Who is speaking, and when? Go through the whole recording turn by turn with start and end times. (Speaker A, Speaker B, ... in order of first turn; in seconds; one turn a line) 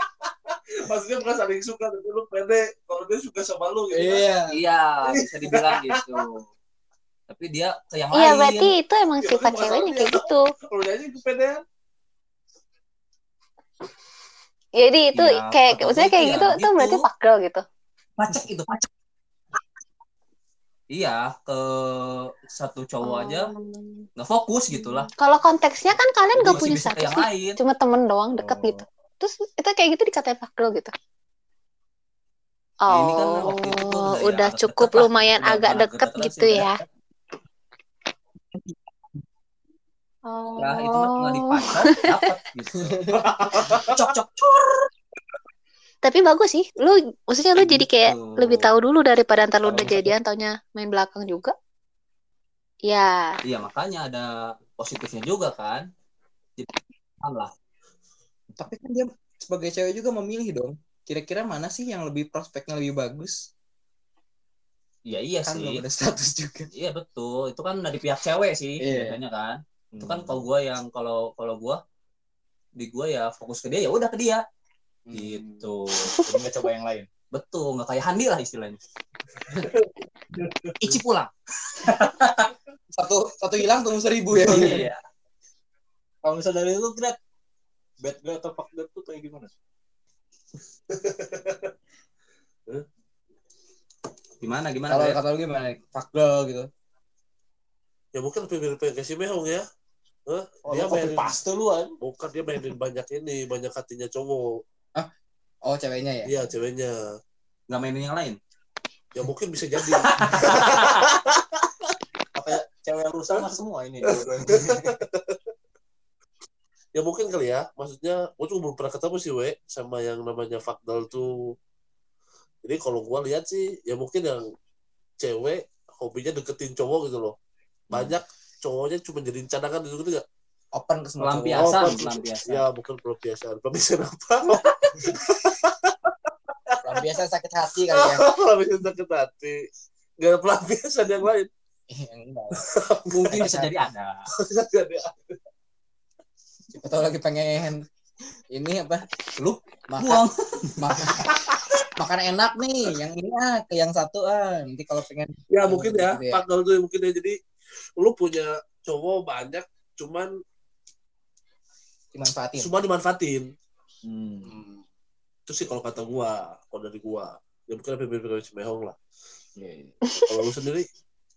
Speaker A: 0.7-4.3
Speaker B: 3.9-4.6
Speaker C: 4.5-6.4
Speaker A: 5.0-6.2
Speaker C: 7.3-8.8
Speaker D: 8.1-10.4
Speaker A: 9.2-11.6
Speaker D: 14.8-17.6
Speaker C: 15.1-17.1
Speaker C: 18.2-18.9
Speaker C: 20.9-23.5
Speaker D: 23.0-24.1
Speaker C: 24.2-25.1
Speaker D: 24.7-30.9
Speaker C: 26.3-27.6
Speaker E: 28.4-28.8
Speaker D: 32.8-36.8
Speaker C: 32.9-36.7
Speaker D: 40.3-42.2
Speaker C: 40.6-43.0
Speaker B: 42.8-44.1
Speaker A: 43.2-43.9
Speaker C: 43.7-44.8
Speaker D: 46.0-51.5
Speaker C: 47.6-48.7
Speaker D: 52.9-53.4
Speaker C: 53.4-55.9
Speaker C: 57.2-57.5
Speaker B: 58.6-63.5
Speaker C: 65.0-65.8
Speaker B: 65.4-66.7
Speaker C: 66.7-71.8
Speaker E: 68.8-69.1
Speaker E: 69.9-70.4
Speaker C: 72.8-74.4
Speaker B: 75.0-75.7
Speaker C: 75.1-76.2
Speaker E: 76.2-77.1
Speaker C: 77.3-78.8
Speaker C: 80.8-82.5
Speaker B: 82.9-84.8
Speaker C: 84.4-85.0
Speaker E: 84.5-84.8
Speaker E: 86.2-87.2
Speaker E: 88.0-89.5
Speaker A: 90.9-91.7
Speaker C: 94.4-95.2
Speaker B: 94.9-96.7
Speaker A: 98.1-99.6
Speaker A: 100.3-101.4
Speaker E: 100.6-102.0
Speaker A: 102.0-104.5
Speaker B: 105.6-106.5
Speaker A: 106.2-107.1
Speaker C: 107.7-108.4
Speaker A: 109.1-111.4
Speaker C: 110.2-111.0
Speaker E: 112.3-115.0
Speaker A: 114.0-115.4
Speaker A: 116.9-121.3
Speaker A: 122.6-124.5
Speaker A: 125.2-127.3
Speaker A: 127.9-130.2
Speaker B: 130.7-132.1
Speaker C: 131.2-132.7
Speaker A: 131.6-136.1
Speaker A: 136.7-137.0
Speaker B: 136.8-138.3
Speaker A: 137.9-139.6
Speaker A: 140.2-141.5
Speaker B: 141.9-143.7
Speaker A: 142.6-143.4
Speaker C: 143.3-144.3
Speaker A: 144.3-145.2
Speaker B: 146.7-147.8
Speaker B: 148.5-156.4
Speaker C: 150.0-150.3
Speaker A: 155.5-157.3
Speaker A: 158.0-160.3
Speaker B: 162.1-162.8
Speaker A: 162.6-163.5
Speaker E: 164.0-164.6
Speaker B: 164.4-164.8
Speaker A: 165.5-169.0
Speaker E: 169.6-169.9
Speaker A: 170.3-170.9